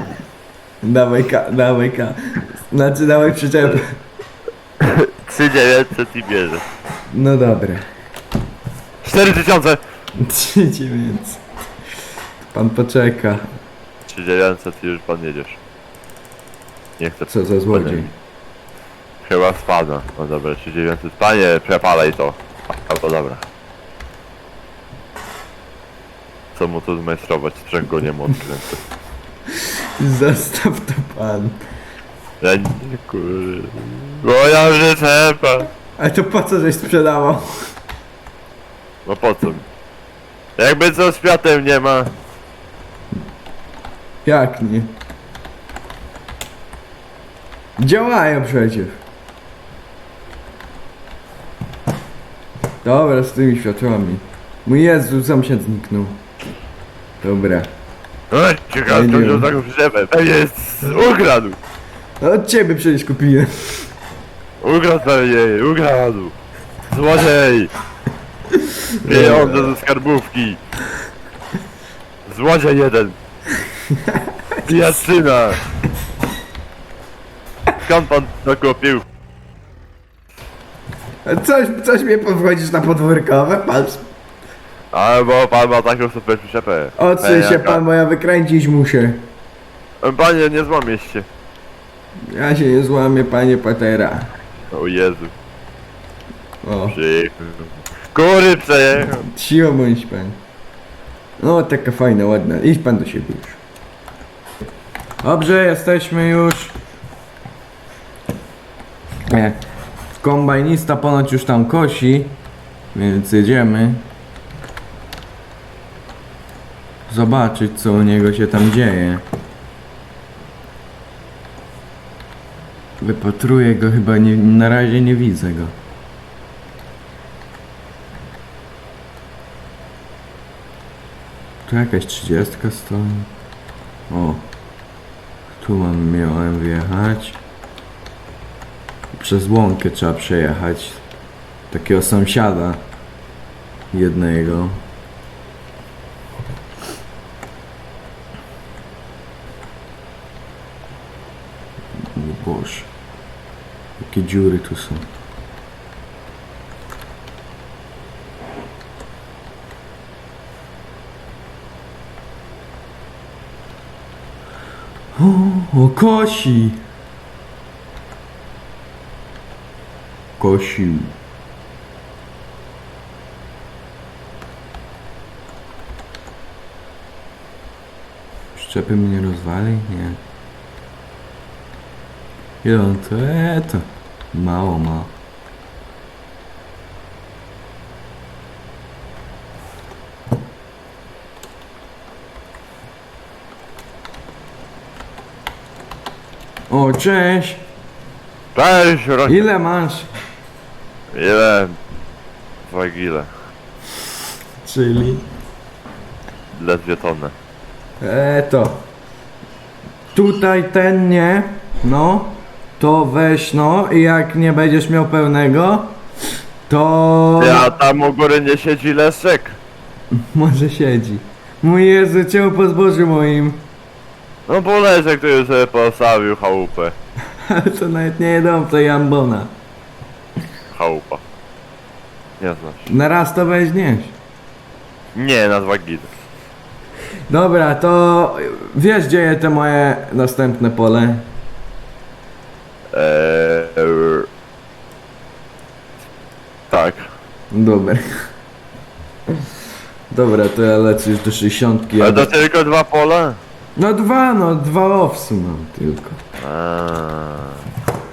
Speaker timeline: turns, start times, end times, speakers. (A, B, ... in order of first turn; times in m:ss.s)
0:00.8-0:03.9 A
0:04.8-0:06.6 B
0:07.1-0:07.8 A
0:09.0-0:09.8 B
0:10.2-0:11.4 A
0:12.4-0:13.5 A
0:14.0-0:15.6 B
0:17.0-0:18.1 B
0:17.3-0:18.1 A
0:19.2-0:23.4 B
0:26.5-0:28.8 B
0:30.0-0:31.6 A
0:32.4-0:35.7 B
0:36.0-0:37.5 A
0:39.0-0:39.6 B
0:40.6-0:42.1 B
0:44.2-0:44.9 A
0:47.8-0:49.0 A
0:52.8-0:56.2 A
0:57.2-0:57.7 A
0:58.3-1:01.6 B
0:58.9-0:59.5 A
1:02.2-1:03.9 A
1:04.6-1:06.3 B
1:06.9-1:07.7 B
1:09.0-1:09.7 A
1:09.0-1:10.6 B
1:12.2-1:13.2 B
1:14.6-1:15.6 B
1:17.8-1:19.0 B
1:21.2-1:24.0 A
1:24.9-1:27.8 B
1:27.0-1:29.2 A
1:30.0-1:31.3 B
1:32.3-1:34.3 A
1:34.7-1:35.3 B
1:36.6-1:37.0 A
1:36.9-1:39.3 B
1:39.2-1:40.4 A
1:41.4-1:43.6 A
1:45.2-1:46.8 A
1:49.3-1:49.6 A
1:50.2-1:52.4 A
1:52.9-1:54.1 A
1:57.1-1:59.2 A
2:03.0-2:05.7 A
2:11.6-2:13.3 A
2:14.1-2:14.5 A
2:15.6-2:17.4 A
2:19.1-2:21.0 A
2:21.7-2:22.8 A
2:23.9-2:24.8 A
2:32.1-2:32.9 A
2:34.0-2:35.0 A
2:45.1-2:46.8 A
2:50.4-2:51.1 A
2:58.5-3:00.2 A
3:02.6-3:05.1 A
3:16.7-3:17.6 A
3:18.5-3:19.5 B
3:19.3-3:20.1 A
3:21.1-3:21.8 B
3:22.6-3:23.3 B
3:24.6-3:25.2 A
3:26.5-3:27.3 B
3:28.0-3:28.8 A
3:30.1-3:36.0 A
3:36.7-3:37.7 A
3:37.4-3:39.6 B
3:40.2-3:43.6 A
3:44.5-3:47.0 B
3:47.4-3:49.5 A
3:50.7-3:51.2 B
3:52.4-3:52.9 B
3:52.9-3:54.2 A
3:55.1-3:56.1 B
3:57.3-4:01.3 A
4:02.9-4:04.3 B
4:06.7-4:07.1 B
4:07.5-4:08.0 A
4:10.1-4:12.3 A
4:12.0-4:13.4 B
4:13.8-4:16.2 A
4:16.4-4:17.6 B